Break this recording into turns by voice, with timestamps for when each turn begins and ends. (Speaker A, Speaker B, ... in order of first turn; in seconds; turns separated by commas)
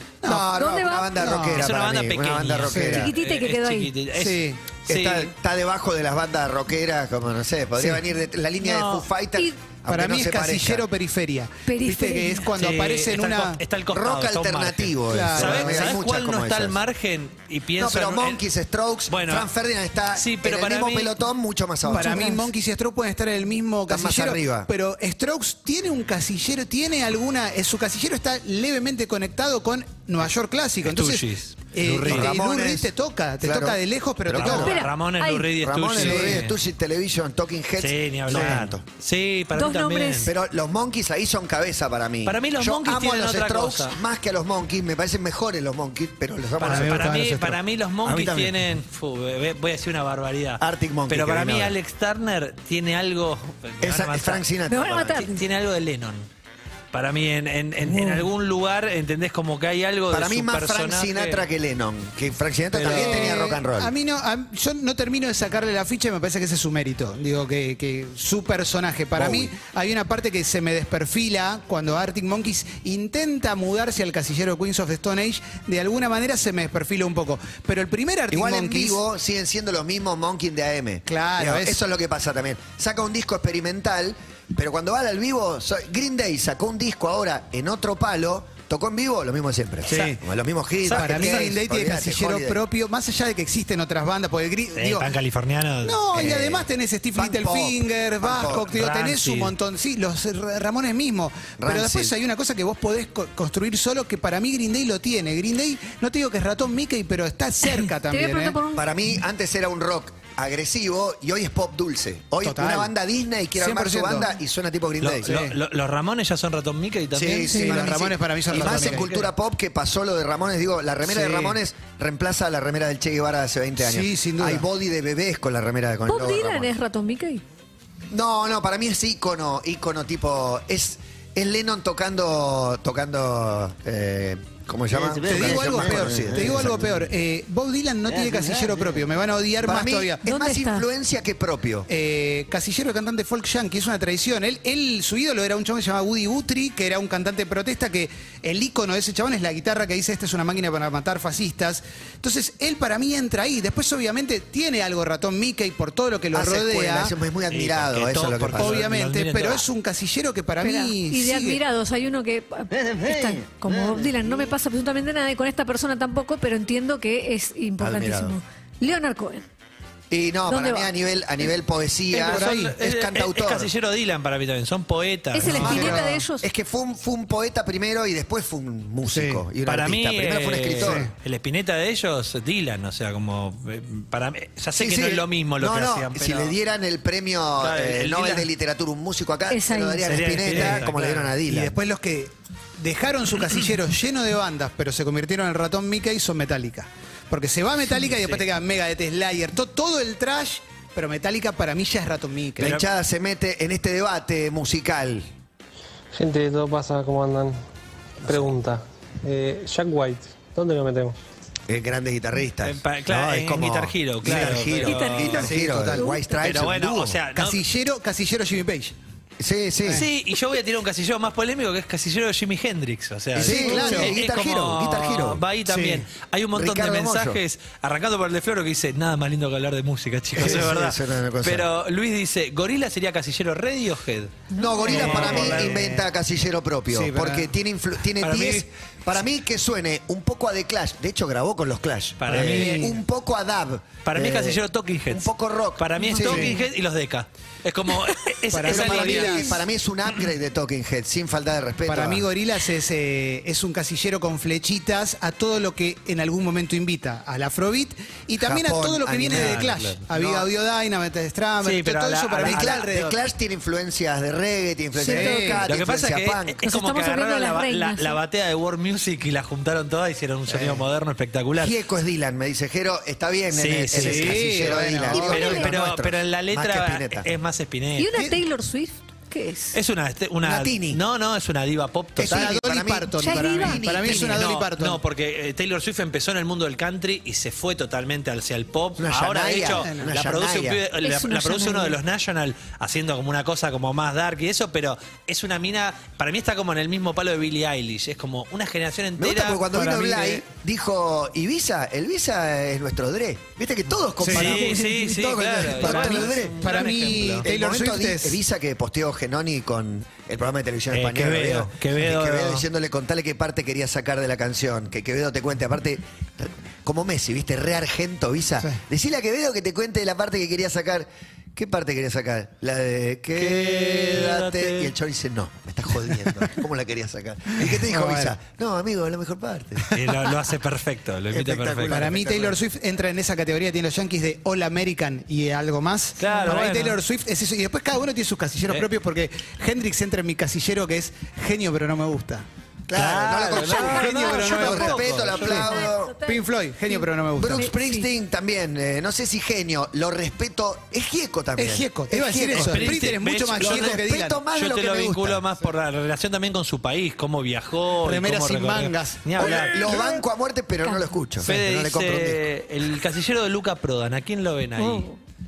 Speaker A: 0.2-0.5, Speaker B: 0.2-3.1, Speaker C: 0.5-1.2, Speaker A: 1.1-1.6, Speaker D: 1.6-5.3, Speaker A: 2.7-3.0, Speaker C: 3.0-3.9, Speaker A: 4.2-4.6, Speaker B: 4.9-10.9, Speaker D: 8.6-9.1, Speaker A: 9.9-13.6, Speaker C: 11.7-12.5, Speaker D: 12.5-18.4, Speaker B: 13.9-16.8, Speaker A: 15.1-15.9, Speaker B: 17.8-22.4, Speaker D: 19.1-19.5, Speaker D: 20.1-21.1, Speaker A: 21.9-34.8, Speaker C: 21.9-22.4, Speaker B: 23.9-24.7, Speaker D: 30.8-32.4, Speaker B: 32.0-34.8, Speaker D: 34.4-36.6, Speaker C: 34.5-35.5, Speaker B: 35.6-38.8, Speaker A: 36.0-36.5, Speaker D: 37.8-40.3, Speaker A: 38.3-38.6, Speaker C: 39.5-40.3, Speaker B: 40.2-47.2, Speaker D: 42.2-44.0, Speaker D: 46.6-56.3, Speaker A: 46.6-47.6, Speaker B: 48.0-48.6, Speaker B: 50.6-51.8, Speaker B: 53.8-55.3, Speaker C: 54.7-55.4, Speaker D: 56.9-61.5, Speaker B: 60.1-63.9, Speaker D: 62.7-63.4, Speaker A: 62.8-79.0, Speaker B: 69.2-69.5, Speaker B: 78.3-92.6, Speaker A: 81.1-81.8, Speaker A: 89.9-90.2, Speaker A: 90.9-95.1, Speaker D: 90.9-91.5, Speaker D: 94.8-96.0, Speaker A: 95.8-108.6, Speaker B: 96.1-98.7, Speaker D: 98.5-99.5, Speaker B: 101.6-102.1, Speaker C: 107.6-108.9, Speaker B: 108.7-115.4, Speaker A: 112.4-112.9, Speaker A: 113.6-114.3, Speaker D: 115.0-117.5, Speaker A: 115.2-115.5, Speaker B: 117.1-126.7, Speaker A: 117.4-119.1, Speaker D: 118.5-119.3, Speaker A: 121.1-121.6, Speaker A: 123.8-124.7, Speaker C: 126.1-127.4, Speaker B: 128.1-137.1, Speaker A: 135.1-140.2, Speaker B: 139.6-141.9, Speaker C: 140.2-140.9, Speaker A: 141.9-157.1, Speaker B: 156.3-158.9, Speaker D: 157.5-159.7, Speaker A: 158.6-161.6, Speaker C: 160.6-169.5, Speaker B: 167.8-168.4, Speaker B: 170.1-173.7, Speaker C: 170.5-170.9, Speaker D: 172.1-176.0, Speaker A: 172.2-172.8, Speaker C: 175.3-176.4, Speaker A: 175.4-176.2, Speaker B: 175.5-181.1, Speaker A: 179.1-179.4, Speaker D: 179.7-186.5, Speaker A: 180.8-181.1, Speaker B: 184.7-191.8, Speaker D: 187.6-188.5, Speaker C: 189.5-190.1, Speaker D: 190.1-191.3, Speaker A: 190.5-202.8, Speaker B: 202.6-205.3, Speaker E: 206.1-207.6, Speaker E: 208.2-211.2, Speaker B: 211.7-217.2, Speaker D: 212.6-215.5, Speaker A: 214.3-214.6, Speaker C: 214.9-216.6, Speaker A: 215.3-216.2, Speaker D: 216.4-217.6, Speaker A: 217.3-218.9, Speaker B: 219.4-220.1, Speaker D: 219.9-235.9, Speaker B: 223.3-225.4, Speaker A: 223.4-224.1, Speaker A: 225.7-226.1, Speaker B: 226.5-227.4, Speaker B: 230.3-231.7, Speaker C: 234.5-235.5, Speaker B: 234.6-246.6, Speaker A: 234.8-236.1, Speaker A: 236.9-237.5, Speaker D: 238.2-238.7, Speaker D: 242.2-242.8, Speaker A: 242.3-243.0, Speaker D: 244.1-249.6, Speaker A: 246.2-246.5, Speaker A: 248.5-249.6, Speaker B: 248.6-252.2, Speaker A: 251.9-263.2, Speaker B: 258.4-259.8, Speaker D: 259.3-260.5, Speaker D: 261.6-262.9, Speaker B: 262.4-266.6, Speaker A: 265.0-265.6, Speaker C: 265.0-265.6, Speaker D: 265.7-271.8, Speaker C: 266.6-268.2, Speaker B: 271.6-277.3, Speaker D: 273.5-278.2, Speaker A: 273.9-275.4, Speaker C: 275.1-275.7, Speaker C: 278.0-279.8, Speaker D: 279.7-282.5, Speaker B: 280.4-281.0, Speaker B: 282.2-284.5, Speaker A: 282.2-285.0, Speaker C: 283.2-283.8, Speaker D: 284.0-299.7, Speaker B: 289.0-290.8, Speaker A: 289.8-290.1, Speaker C: 291.0-292.0, Speaker B: 299.2-330.1, Speaker A: 299.7-300.4, Speaker A: 304.2-304.6, Speaker D: 304.3-307.4, Speaker A: 305.8-308.4, Speaker D: 310.9-312.6, Speaker D: 323.4-324.9, Speaker A: 327.6-328.4, Speaker D: 329.9-332.1, Speaker B: 331.3-332.6, Speaker A: 331.9-342.4, Speaker D: 336.2-337.0, Speaker C: 336.2-336.5, Speaker B: 342.9-346.2, Speaker D: 342.9-345.7, Speaker A: 343.6-345.7, Speaker C: 343.6-348.1, Speaker A: 346.2-347.7, Speaker B: 347.4-355.4, Speaker A: 351.6-354.4, Speaker D: 352.5-354.0, Speaker D: 354.5-360.1, Speaker A: 358.1-359.2, Speaker B: 359.4-362.5, Speaker C: 360.9-361.1, Speaker D: 361.4-365.1, Speaker C: 364.8-365.2